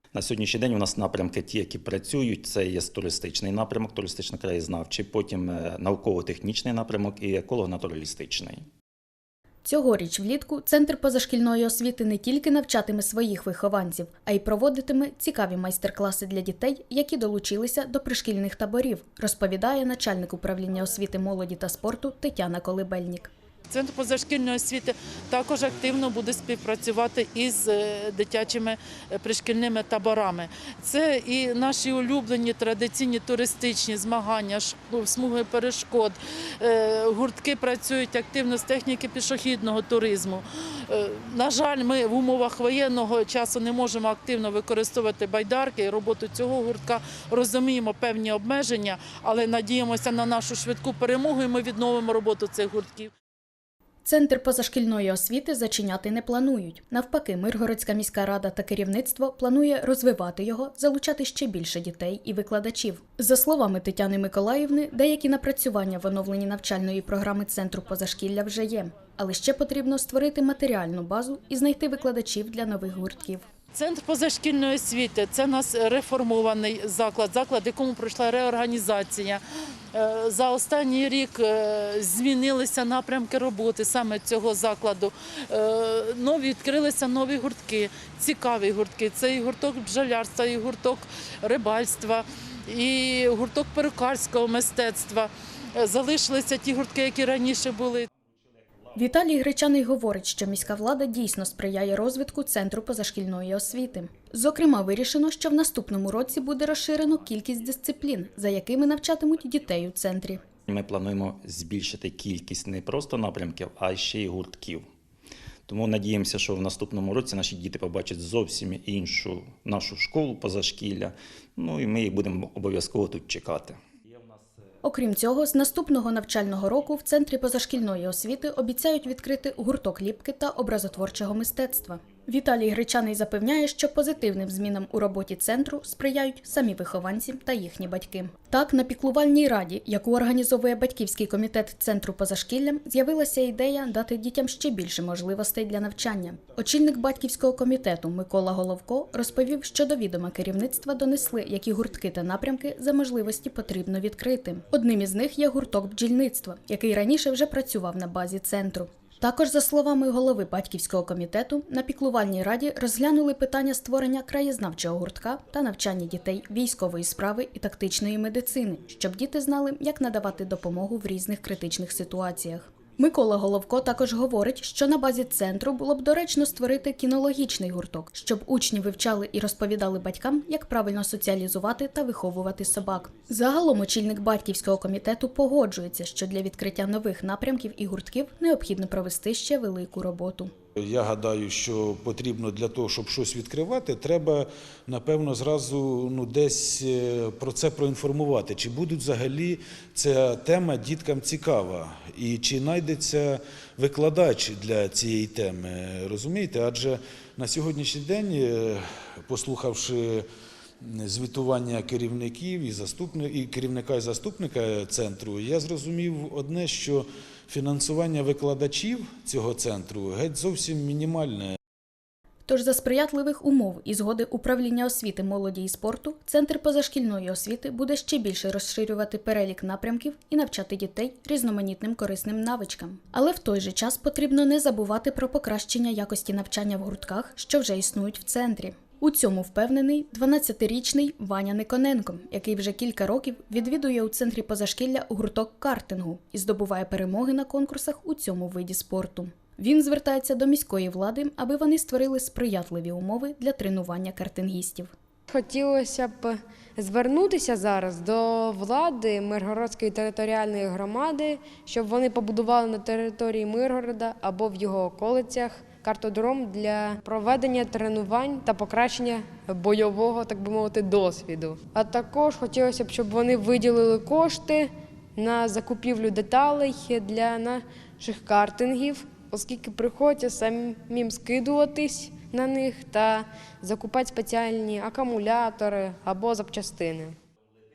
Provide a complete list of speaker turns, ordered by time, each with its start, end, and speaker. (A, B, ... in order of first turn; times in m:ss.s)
0:00.1-0:08.6 A
0:09.6-0:23.3 B
0:23.7-0:53.1 C
0:54.0-1:13.4 B
1:13.7-1:19.4 C
1:19.9-1:38.1 C
1:38.9-1:50.4 B
1:50.7-1:54.8 A
1:55.7-2:03.8 A
2:04.8-3:10.5 B
3:10.8-3:30.2 D
3:30.8-3:41.6 D
3:42.5-4:14.9 B
4:15.3-4:47.2 E